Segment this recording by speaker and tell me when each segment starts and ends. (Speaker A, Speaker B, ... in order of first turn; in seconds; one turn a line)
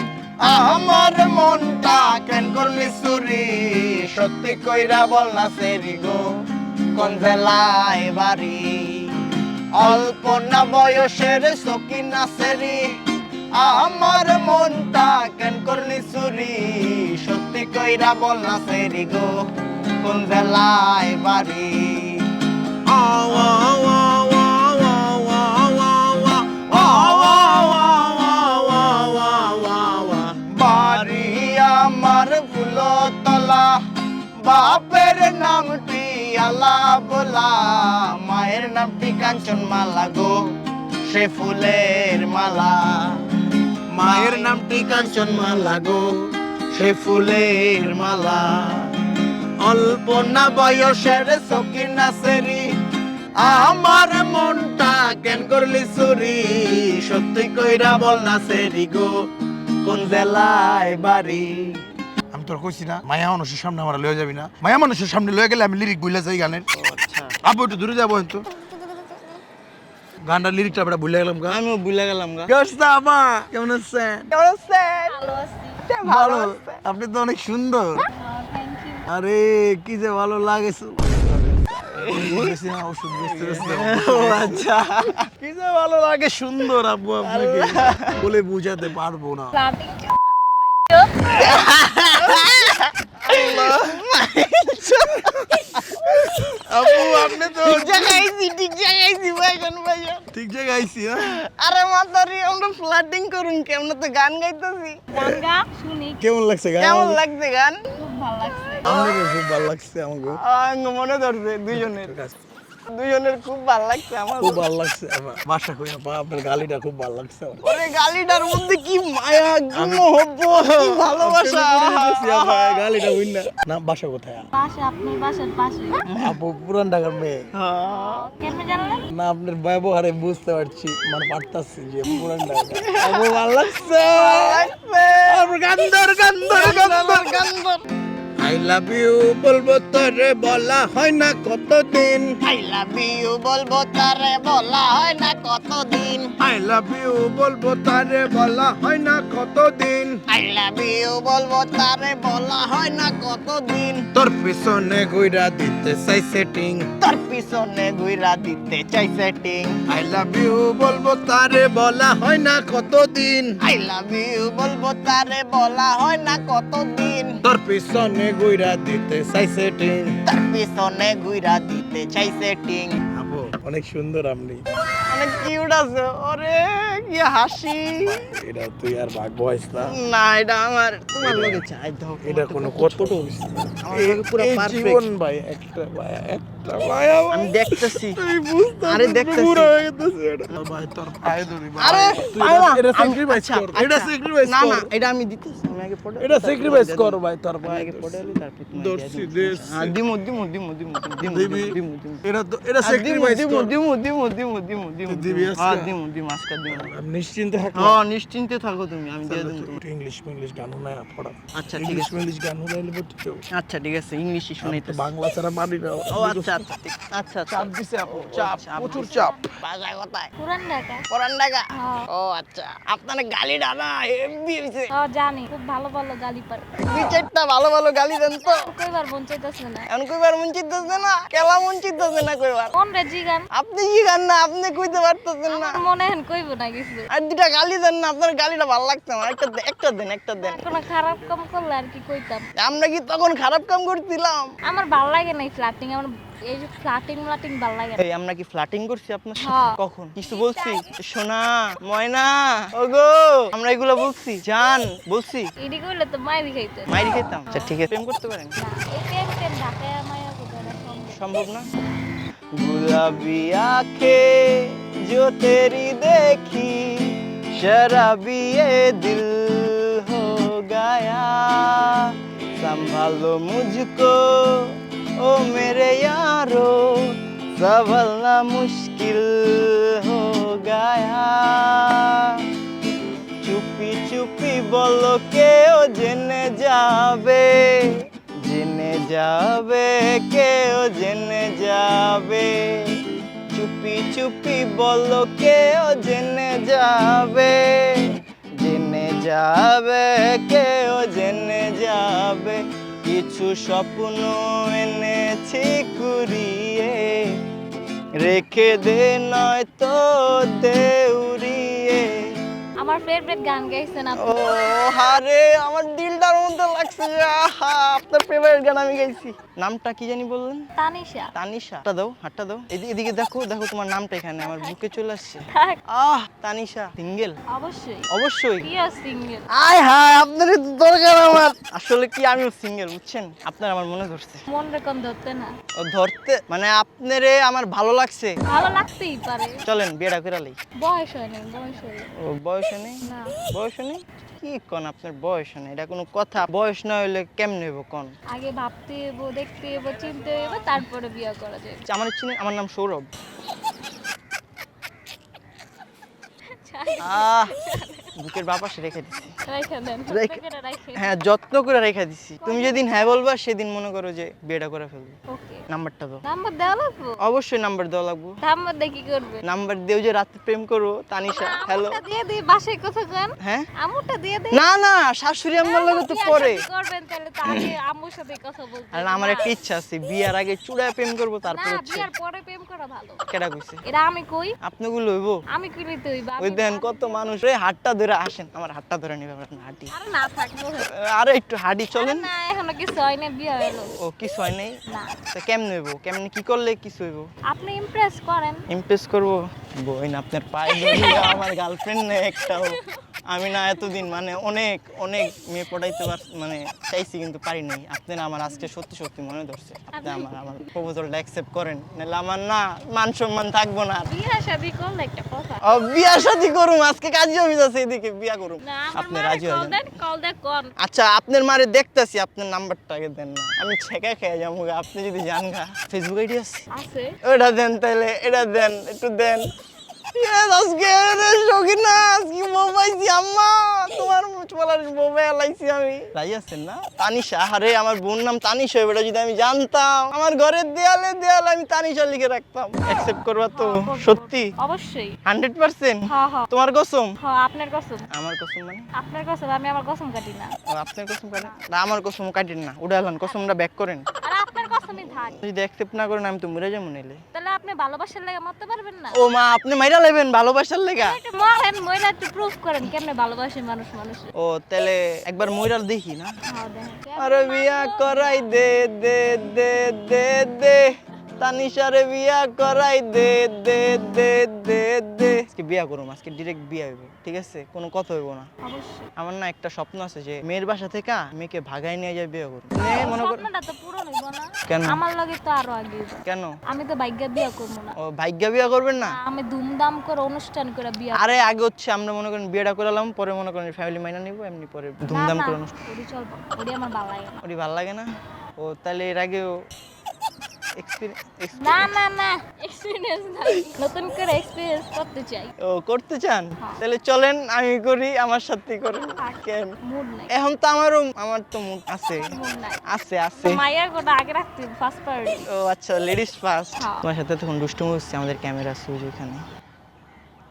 Speaker A: 0.4-6.3
Speaker A: 6.9-9.2
Speaker A: 9.8-12.9
Speaker A: 13.5-19.3
Speaker A: 20.0-22.3
Speaker B: 22.9-28.3
Speaker A: 23.2-23.7
Speaker A: 26.5-33.7
Speaker A: 34.4-40.4
Speaker A: 41.1-43.2
Speaker A: 43.9-46.1
Speaker B: 44.0-44.7
Speaker A: 46.7-48.9
Speaker A: 49.6-52.7
Speaker A: 53.4-59.2
Speaker A: 59.8-61.8
Speaker B: 62.3-66.7
Speaker A: 66.7-67.4
Speaker B: 67.4-68.5
Speaker C: 68.8-69.3
Speaker B: 70.2-71.6
Speaker A: 71.5-72.6
Speaker B: 72.5-74.3
Speaker A: 74.3-75.2
Speaker C: 75.1-75.8
Speaker A: 75.9-76.8
Speaker B: 76.0-78.1
Speaker C: 78.1-79.1
Speaker B: 79.1-84.7
Speaker A: 82.0-82.5
Speaker A: 83.2-85.2
Speaker B: 85.4-89.6
Speaker A: 87.2-88.2
Speaker C: 89.5-91.6
Speaker A: 91.3-100.2
Speaker B: 93.5-93.8
Speaker B: 94.9-98.3
Speaker B: 100.3-101.3
Speaker A: 101.3-105.0
Speaker C: 105.1-106.2
Speaker B: 106.2-107.2
Speaker A: 106.8-107.8
Speaker C: 108.0-109.1
Speaker B: 108.8-110.4
Speaker A: 108.9-109.2
Speaker A: 110.3-112.2
Speaker B: 111.7-112.4
Speaker A: 112.9-114.6
Speaker B: 114.4-117.7
Speaker A: 117.6-122.9
Speaker B: 119.7-120.1
Speaker B: 120.8-124.5
Speaker C: 124.5-126.0
Speaker A: 126.1-126.3
Speaker B: 126.2-127.5
Speaker A: 127.5-128.3
Speaker C: 127.9-129.1
Speaker B: 129.1-134.7
Speaker A: 132.7-133.4
Speaker A: 134.0-135.6
Speaker B: 135.2-137.4
Speaker A: 136.4-137.8
Speaker B: 138.4-142.4
Speaker A: 142.4-146.3
Speaker B: 146.4-150.2
Speaker A: 150.3-154.1
Speaker B: 154.1-156.9
Speaker A: 157.0-159.8
Speaker B: 159.9-163.6
Speaker A: 163.6-167.4
Speaker B: 167.4-170.2
Speaker A: 170.3-173.0
Speaker B: 173.2-174.6
Speaker A: 175.0-178.2
Speaker B: 178.0-180.0
Speaker A: 179.8-183.2
Speaker B: 181.2-181.6
Speaker B: 182.2-194.9
Speaker A: 183.8-185.1
Speaker A: 187.3-188.2
Speaker A: 188.8-189.8
Speaker A: 191.8-202.2
Speaker B: 196.2-200.0
Speaker B: 201.2-203.8
Speaker A: 202.8-206.9
Speaker B: 205.1-205.9
Speaker B: 206.7-208.0
Speaker A: 207.7-209.8
Speaker B: 209.3-213.4
Speaker A: 211.5-212.2
Speaker A: 213.5-215.1
Speaker B: 214.6-216.7
Speaker A: 216.1-220.3
Speaker B: 217.5-219.3
Speaker C: 218.8-219.6
Speaker C: 220.4-221.1
Speaker A: 221.1-224.9
Speaker C: 221.8-222.1
Speaker C: 224.9-227.2
Speaker A: 226.8-228.7
Speaker C: 228.4-229.9
Speaker A: 229.9-232.7
Speaker C: 232.7-233.5
Speaker A: 233.5-235.8
Speaker C: 235.5-237.1
Speaker A: 237.1-240.7
Speaker C: 240.4-242.5
Speaker A: 242.6-244.5
Speaker C: 244.7-248.0
Speaker A: 248.0-255.5
Speaker C: 249.4-250.9
Speaker C: 255.6-257.8
Speaker A: 256.9-258.5
Speaker C: 258.6-261.2
Speaker A: 261.1-261.7
Speaker A: 262.6-282.5
Speaker A: 283.4-293.0
Speaker A: 293.5-307.3
Speaker A: 308.2-312.3
Speaker C: 312.8-314.8
Speaker A: 314.2-320.6
Speaker C: 320.8-321.3
Speaker A: 321.4-327.4
Speaker C: 324.4-324.7
Speaker C: 325.5-325.8
Speaker C: 327.5-328.1
Speaker A: 328.1-328.7
Speaker C: 328.6-329.5
Speaker A: 329.5-334.4
Speaker C: 334.5-335.5
Speaker A: 335.8-338.3
Speaker C: 338.5-339.6
Speaker A: 339.6-340.6
Speaker C: 340.8-342.1
Speaker A: 342.2-348.1
Speaker C: 343.0-343.4
Speaker C: 348.3-351.8
Speaker A: 351.9-353.1
Speaker C: 356.5-358.1
Speaker A: 357.0-357.6
Speaker A: 358.2-359.3
Speaker C: 359.5-361.1
Speaker A: 360.1-360.4
Speaker A: 361.0-365.2
Speaker C: 362.4-363.2
Speaker C: 365.3-365.6
Speaker A: 365.7-366.2
Speaker C: 366.3-367.2
Speaker A: 367.2-368.4
Speaker C: 368.4-369.4
Speaker A: 369.4-372.0
Speaker C: 371.3-374.6
Speaker A: 374.5-376.6
Speaker C: 375.6-379.5
Speaker A: 378.9-382.1
Speaker C: 381.5-383.2
Speaker A: 383.3-383.8
Speaker C: 383.9-384.5
Speaker A: 384.6-385.4
Speaker C: 385.5-387.3
Speaker A: 386.4-389.9
Speaker C: 389.9-390.9
Speaker A: 390.9-392.3
Speaker C: 391.9-393.9
Speaker A: 394.0-394.8
Speaker C: 394.9-395.2
Speaker A: 395.3-397.3
Speaker C: 397.5-398.6
Speaker A: 398.7-402.8
Speaker C: 400.7-401.4
Speaker C: 402.4-403.0
Speaker A: 403.3-414.1
Speaker C: 403.8-404.1
Speaker C: 409.9-410.7
Speaker C: 414.1-416.3
Speaker A: 415.6-419.8
Speaker C: 418.6-420.7
Speaker A: 420.8-426.6
Speaker C: 426.7-427.1
Speaker A: 427.2-429.5
Speaker A: 430.2-444.5
Speaker C: 443.5-445.1
Speaker A: 445.3-447.1
Speaker C: 446.1-446.5
Speaker C: 447.2-448.1
Speaker A: 448.1-448.9
Speaker C: 449.0-450.6
Speaker A: 450.7-454.1
Speaker C: 454.2-455.4
Speaker A: 454.7-457.2
Speaker C: 457.3-459.2
Speaker A: 459.1-461.2
Speaker C: 461.0-464.3
Speaker A: 464.4-466.3
Speaker C: 466.5-468.5
Speaker A: 467.2-478.5
Speaker C: 478.6-479.1
Speaker A: 479.2-483.5
Speaker C: 482.8-487.9
Speaker A: 484.7-485.0
Speaker A: 488.0-489.2
Speaker C: 489.0-491.5
Speaker A: 491.1-495.8
Speaker C: 495.1-497.4
Speaker A: 497.4-498.1
Speaker A: 498.6-499.5
Speaker A: 500.8-501.9
Speaker C: 501.6-505.5
Speaker A: 505.7-509.7
Speaker C: 509.2-510.3
Speaker A: 510.3-512.3
Speaker C: 512.1-512.8
Speaker A: 512.9-513.6
Speaker C: 513.4-515.5
Speaker A: 515.5-519.4
Speaker C: 516.8-517.1